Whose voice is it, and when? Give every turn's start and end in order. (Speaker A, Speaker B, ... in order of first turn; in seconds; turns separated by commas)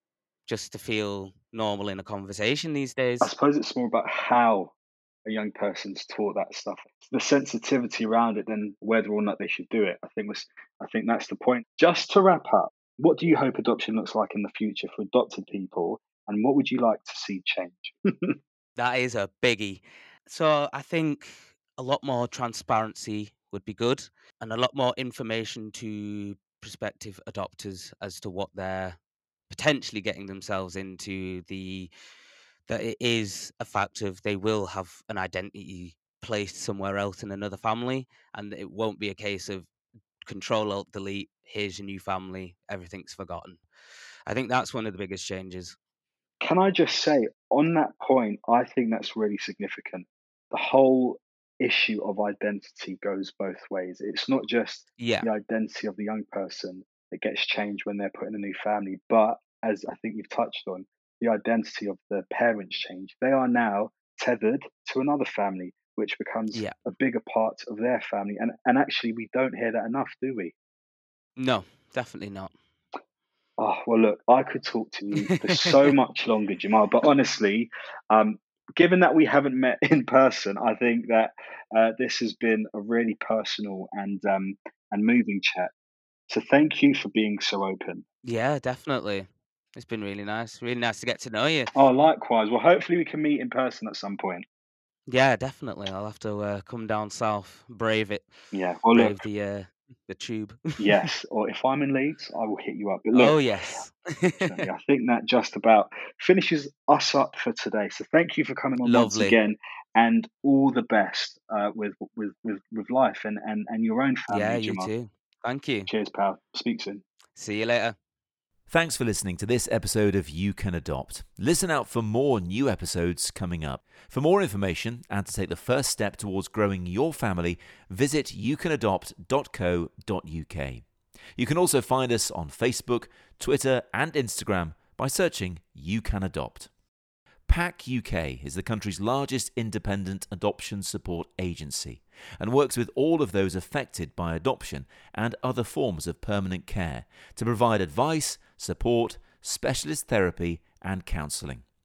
Speaker A: 0.5-3.3, Speaker B: 3.2-4.7, Speaker B: 5.2-18.4, Speaker A: 18.8-29.0, Speaker A: 29.5-31.9, Speaker A: 32.7-39.7, Speaker A: 40.2-43.6, Speaker A: 44.3-45.8, Speaker B: 46.4-70.5, Speaker A: 55.0-55.3, Speaker A: 66.5-66.8, Speaker A: 71.4-72.5, Speaker B: 73.6-85.7, Speaker A: 75.3-75.8, Speaker B: 86.3-88.0, Speaker A: 88.2-91.7, Speaker B: 91.7-94.4, Speaker A: 95.1-98.3, Speaker B: 98.5-99.2, Speaker A: 98.9-101.1, Speaker B: 100.8-103.4, Speaker A: 103.1-104.6, Speaker B: 104.4-114.9, Speaker A: 108.8-109.4, Speaker A: 114.3-115.9, Speaker B: 115.9-117.0, Speaker A: 117.3-118.0, Speaker C: 118.7-130.8, Speaker C: 131.3-136.7, Speaker C: 137.5-151.7